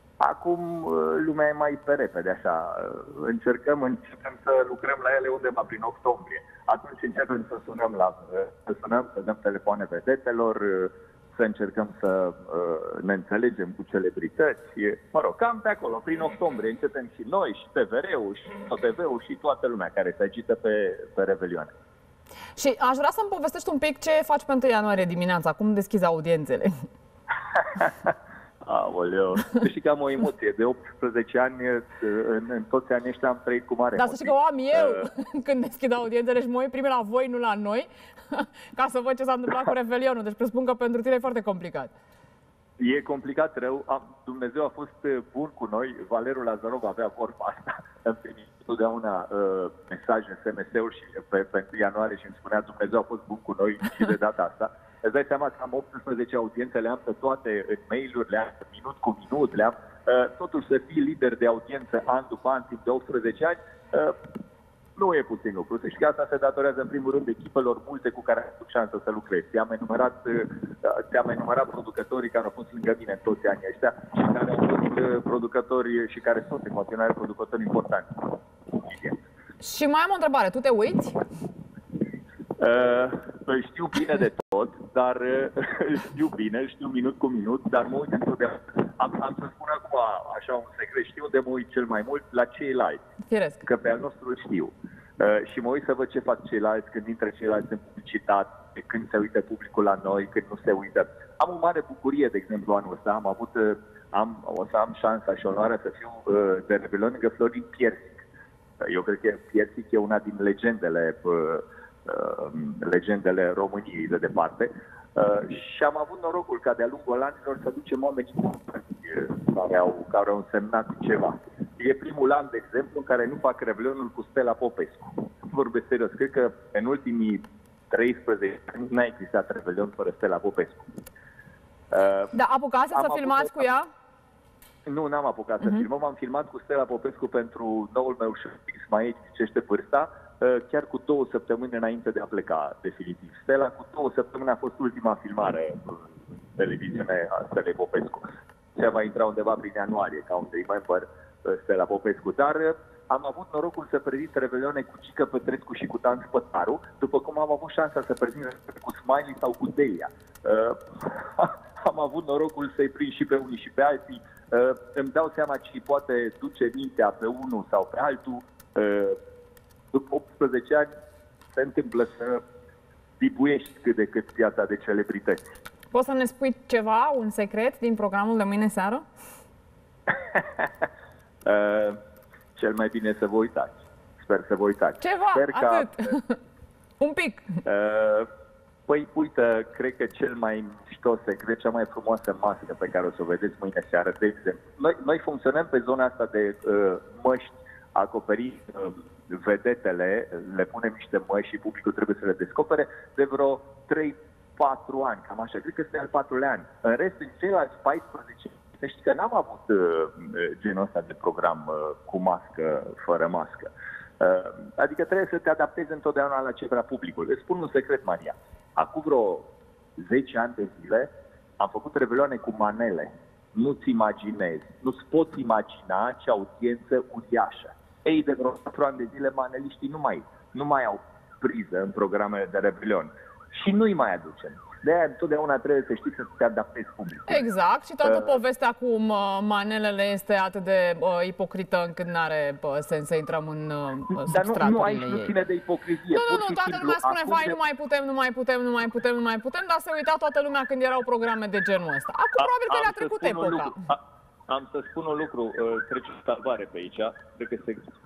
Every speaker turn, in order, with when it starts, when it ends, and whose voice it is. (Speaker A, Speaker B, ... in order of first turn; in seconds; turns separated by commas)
Speaker A: 0.2-21.7, Speaker B: 22.6-26.7, Speaker A: 27.6-35.1, Speaker B: 34.0-41.9, Speaker A: 42.8-64.1, Speaker A: 65.0-79.2, Speaker B: 79.6-81.2, Speaker A: 82.6-93.0, Speaker B: 93.3-93.6, Speaker A: 93.6-108.2, Speaker A: 108.8-130.9, Speaker A: 131.9-132.3, Speaker B: 132.3-133.8, Speaker A: 132.9-133.7, Speaker A: 134.8-169.2, Speaker A: 169.9-170.9, Speaker A: 171.5-172.4, Speaker A: 173.2-175.4, Speaker B: 175.9-179.0, Speaker A: 180.1-180.9, Speaker A: 181.4-182.0, Speaker A: 182.5-186.2, Speaker B: 185.0-186.4, Speaker B: 187.0-187.4, Speaker A: 187.6-188.3, Speaker A: 188.9-237.4, Speaker B: 237.3-245.3, Speaker A: 238.0-238.3, Speaker A: 244.2-247.6, Speaker B: 246.1-253.8, Speaker A: 252.4-257.8